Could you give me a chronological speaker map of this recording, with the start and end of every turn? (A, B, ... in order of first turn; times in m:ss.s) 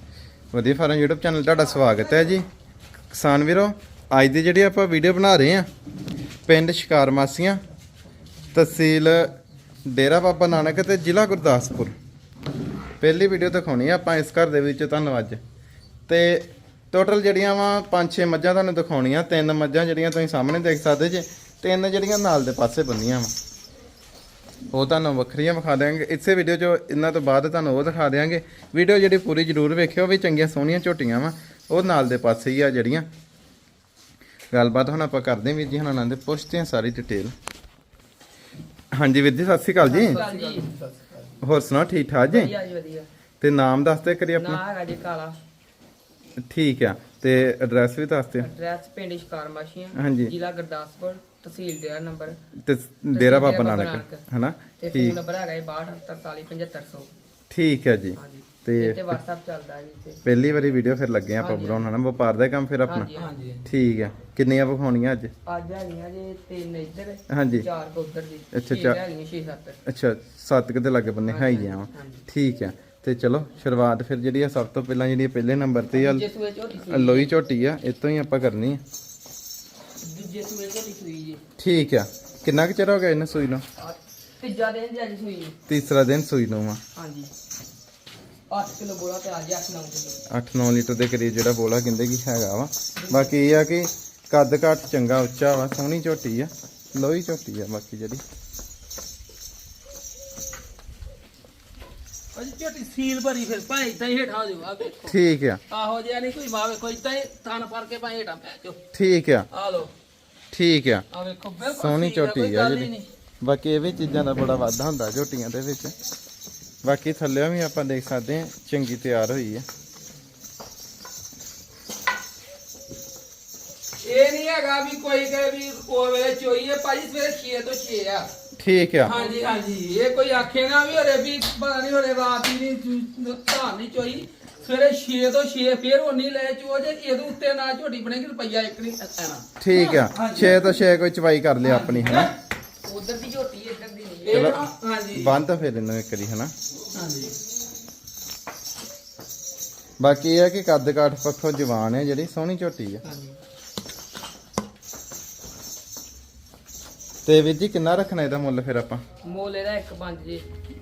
0:00.5-0:02.5 A
0:03.1-0:05.7 A
0:06.5-0:07.6 A
0:08.5-0:12.0 A
0:13.0-0:15.4 A
0:16.1-0:23.3 A
0:24.7-0:33.1 A
0:34.5-0:37.3 A
0:38.9-0:40.2 A
0:39.8-0:41.4 B
0:39.9-0:40.7 C
0:41.4-0:42.5 A
0:42.3-0:43.1 C
0:43.4-0:44.6 A
0:44.2-0:45.4 C
0:46.4-0:48.5 A
0:48.4-0:52.4 C
0:50.0-0:50.3 A
0:52.6-0:55.2 A
0:53.1-0:54.2 C
0:54.8-0:57.1 C
0:57.5-0:59.2 A
0:58.2-1:00.2 C
1:00.2-1:03.1 A
1:01.4-1:01.9 C
1:02.9-1:03.3 C
1:03.2-1:03.6 B
1:03.6-1:05.3 A
1:05.4-1:09.8 C
1:07.3-1:07.7 A
1:08.5-1:09.0 A
1:09.9-1:16.2 A
1:11.3-1:12.2 C
1:15.9-1:17.3 C
1:16.9-1:18.8 A
1:20.0-1:21.4 C
1:21.6-1:23.6 A
1:23.8-1:25.6 C
1:25.7-1:26.8 A
1:26.9-1:27.3 C
1:28.5-1:30.2 C
1:30.3-1:38.2 A
1:33.0-1:33.4 C
1:42.3-1:45.2 B
1:45.1-1:45.6 A
1:45.7-1:48.8 B
1:48.9-1:49.5 A
1:49.5-1:49.9 B
1:50.5-1:51.1 A
1:51.1-1:53.1 B
1:51.7-1:55.9 A
1:56.8-1:59.6 A
2:04.0-2:08.3 B
2:08.6-2:09.2 A
2:09.0-2:20.7 B
2:19.6-2:22.3 A
2:21.6-2:22.3 B
2:22.8-2:24.6 C
2:24.2-2:25.3 B
2:24.3-2:26.5 A
2:26.9-2:27.4 B
2:30.0-2:33.0 A
2:33.0-2:33.4 C
2:37.2-2:39.0 A
2:39.2-2:40.4 C